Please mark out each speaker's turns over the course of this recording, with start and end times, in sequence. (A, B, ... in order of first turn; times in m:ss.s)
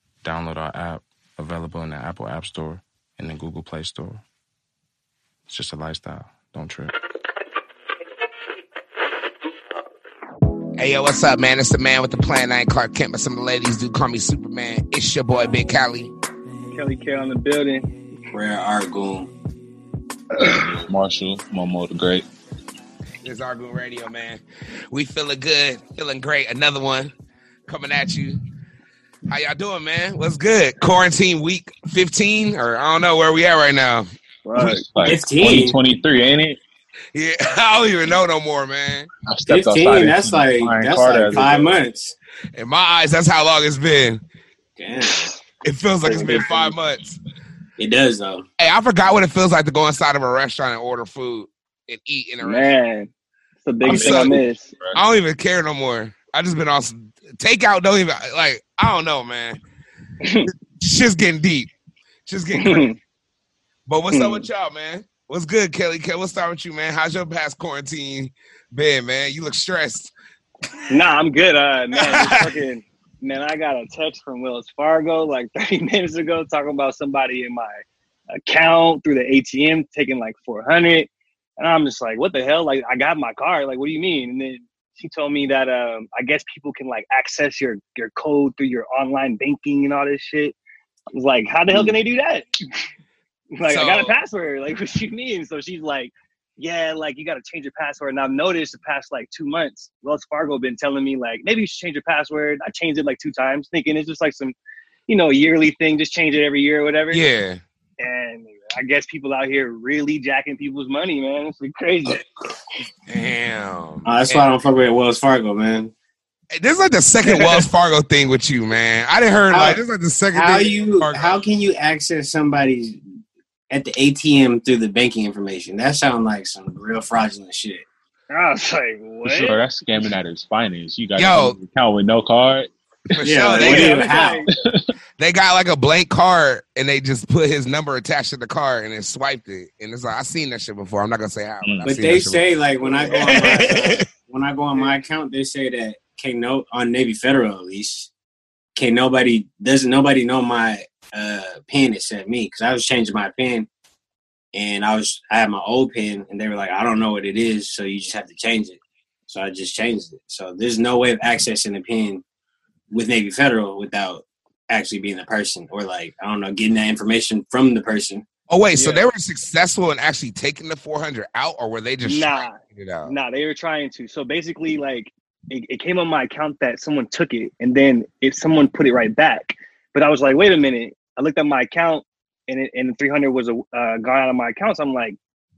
0:00.2-0:04.2 A
0:05.5-0:06.9 A
0:10.8-0:16.1 B
0:16.7-0:17.9 C
0:18.3-0:19.3 D
0:20.5-0:22.3 E
0:23.2-0:27.1 B
0:27.7-0:28.4 B
0:29.3-0:34.1 B
0:34.4-0:34.8 C
0:34.6-0:36.6 E
0:35.0-0:35.8 D
0:37.1-0:39.1 B
0:39.3-0:41.8 E
0:39.5-0:42.1 D
0:42.6-0:44.2 B
0:44.8-0:45.3 D
0:45.0-0:45.3 C
0:45.6-0:47.2 B
0:46.0-0:46.5 C
0:46.1-0:46.7 D
0:47.8-0:48.4 D
0:48.6-0:52.7 B
0:52.4-0:53.1 C
0:53.6-0:54.6 C
0:53.8-0:55.0 E
0:53.8-0:54.4 B
0:55.0-0:59.6 B
1:00.2-1:00.5 C
1:00.8-1:01.7 B
1:02.3-1:02.9 B
1:02.6-1:03.0 C
1:03.9-1:10.1 B
1:04.1-1:04.4 C
1:10.9-1:17.8 C
1:12.0-1:12.6 B
1:18.5-1:30.6 C
1:31.2-1:32.5 C
1:33.6-1:44.6 C
1:33.6-1:34.1 B
1:45.1-1:47.2 C
1:47.1-1:47.6 B
1:48.0-1:52.2 C
1:53.1-1:54.5 B
1:54.1-1:55.9 D
1:56.5-2:01.4 B
1:57.2-1:57.6 C
1:59.5-1:59.8 D
2:00.3-2:03.0 D
2:03.7-2:07.8 D
2:08.3-2:09.6 C
2:09.2-2:13.2 E
2:11.2-2:11.6 B
2:13.1-2:14.2 B
2:13.2-2:14.5 D
2:13.5-2:14.5 C
2:14.5-2:14.8 E
2:15.2-2:22.4 B
2:21.6-2:21.9 E
2:21.8-2:28.1 D
2:23.0-2:24.0 B
2:28.8-2:33.7 D
2:34.5-2:42.2 D
2:42.9-2:48.2 D
2:48.5-2:53.2 B
2:48.8-2:49.1 C
2:52.0-3:05.2 C